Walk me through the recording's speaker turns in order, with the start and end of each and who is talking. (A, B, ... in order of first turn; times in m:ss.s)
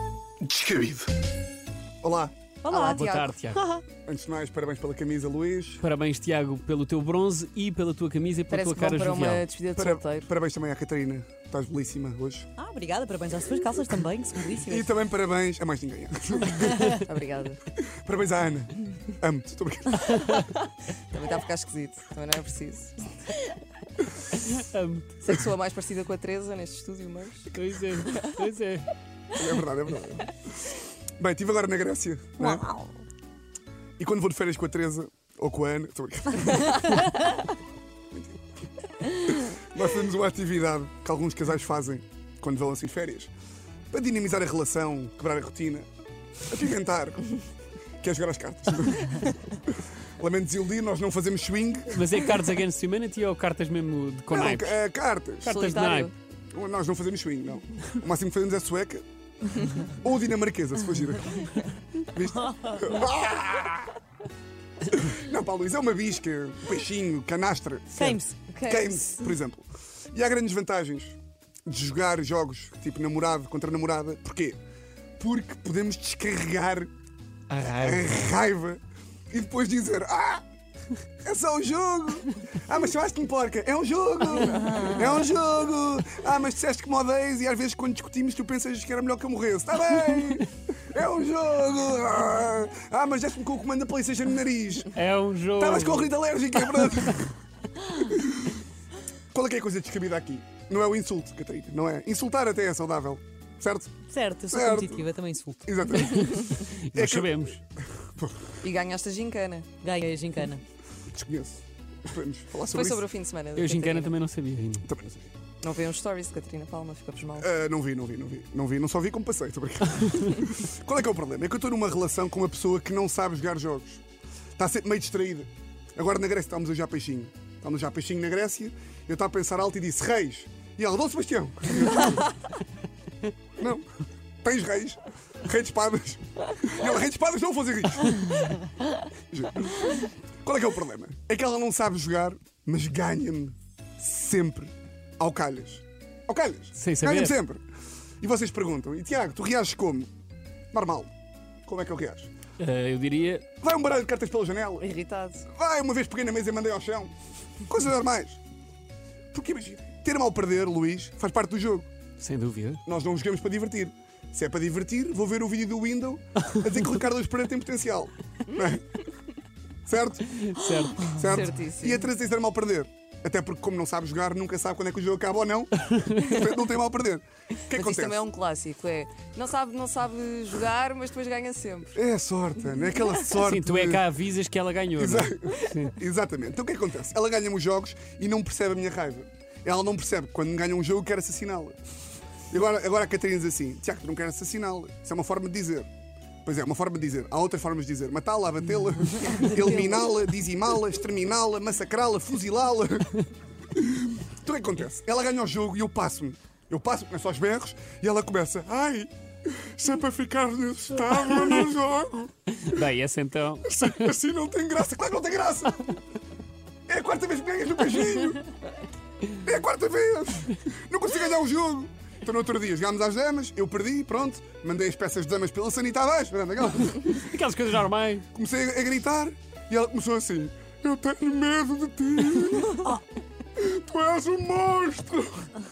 0:00.4-0:01.1 A
0:02.0-0:02.3 A
0:02.6-0:03.8 B
0:02.7-0:03.4 C
0:02.8-0:03.6 D
0:04.1-0:05.8 A
0:05.8-0:09.4 D
0:08.5-0:10.3 C
0:09.8-0:12.5 A
0:12.6-0:14.9 B
0:14.6-0:16.9 A
0:16.6-0:17.0 B
0:16.8-0:17.6 C
0:17.8-0:20.4 A
0:20.1-0:20.4 D
0:21.1-0:23.2 C
0:24.4-0:25.2 D
0:25.2-0:28.4 C
0:27.5-0:28.9 D
0:29.3-0:32.7 A
0:32.6-0:32.9 C
0:34.0-0:37.3 A
0:38.1-0:38.4 A
0:39.0-0:43.3 A
0:43.9-0:45.9 A
0:46.5-0:47.4 A
0:48.0-0:52.4 A
0:51.9-0:54.8 D
0:54.3-0:55.6 A
0:55.4-0:56.1 D
0:55.5-0:56.1 C
0:56.5-0:59.0 A
0:59.8-1:03.9 A
1:04.9-1:14.6 A
1:07.9-1:08.4 B
1:08.5-1:09.3 C
1:15.2-1:16.9 A
1:17.5-1:18.3 D
1:17.8-1:20.4 A
1:21.2-1:34.9 A
1:34.9-1:37.2 D
1:35.6-1:37.3 A
1:38.0-1:38.6 A
1:39.3-1:43.9 A
1:44.1-1:46.2 B
1:44.5-1:45.1 A
1:45.7-1:48.6 A
1:46.3-1:47.6 D
1:48.6-1:49.7 C
1:49.8-1:50.6 B
1:51.1-1:53.0 A
1:52.7-1:54.2 C
1:53.6-1:54.9 D
1:54.8-1:55.3 A
1:55.6-1:57.5 C
1:57.4-2:04.0 A
2:04.6-2:12.3 A
2:13.6-2:13.8 A
2:14.4-2:18.3 A
2:19.3-2:27.6 A
2:26.8-2:27.3 D
2:28.2-2:30.1 A
2:30.7-2:31.1 A
2:31.7-2:32.3 A
2:32.6-2:33.5 D
2:33.6-2:35.0 A
2:34.8-2:35.5 C
2:35.5-2:37.1 A
2:37.7-2:38.4 A
2:39.3-2:41.9 A
2:42.2-2:42.8 D
2:42.9-2:49.0 A
2:49.9-2:58.2 A
2:50.4-2:51.5 D
2:51.2-2:52.1 C
2:55.9-2:56.2 D
2:57.7-3:02.0 C
3:02.0-3:04.1 A
3:03.4-3:05.9 D
3:05.0-3:11.8 A
3:12.5-3:15.9 A
3:16.4-3:32.8 A
3:32.6-3:33.8 D
3:33.6-3:35.9 A
3:36.9-3:38.4 A
3:39.4-3:47.3 A
3:47.1-3:48.2 D
3:48.3-3:53.0 A
3:53.6-3:55.5 A